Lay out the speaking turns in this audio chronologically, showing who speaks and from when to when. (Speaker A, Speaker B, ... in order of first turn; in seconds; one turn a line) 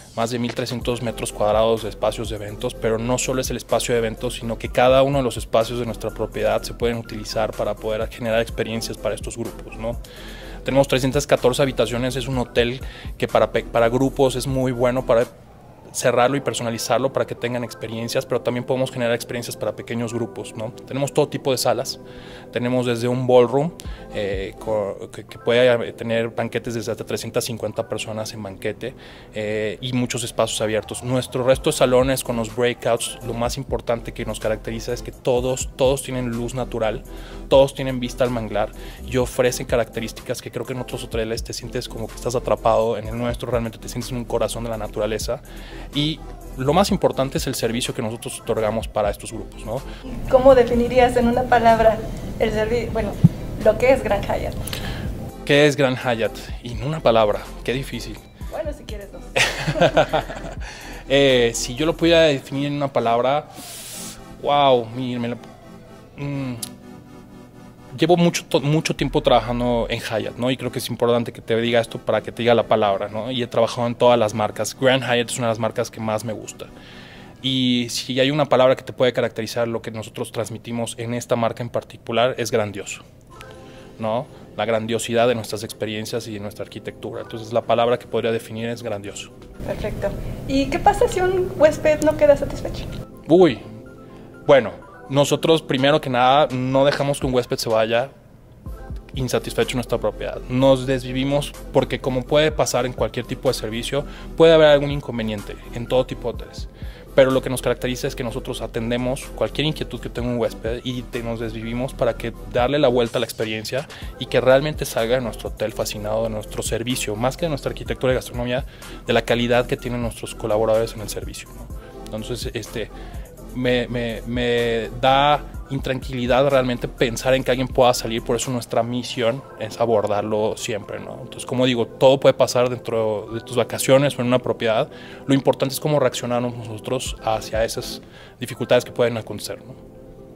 Speaker A: 0.1-10.0
Speaker A: 10.7-15.3
Speaker A: 15.9-22.0
Speaker A: 22.5-45.4
Speaker A: 45.9-49.8
Speaker B: 50.3-54.6
Speaker A: 55.5-58.2
Speaker B: 58.5-60.1
Speaker A: 59.5-60.6
Speaker A: 61.1-63.8
Speaker A: 64.4-65.4
Speaker A: 66.2-66.6
Speaker A: 67.9-76.7
Speaker A: 77.4-83.0
Speaker A: 84.0-89.3
Speaker B: 89.7-92.9
Speaker A: 93.3-93.7
Speaker A: 94.5-98.1
Speaker A: 99.1-122.9
Speaker A: 123.5-139.8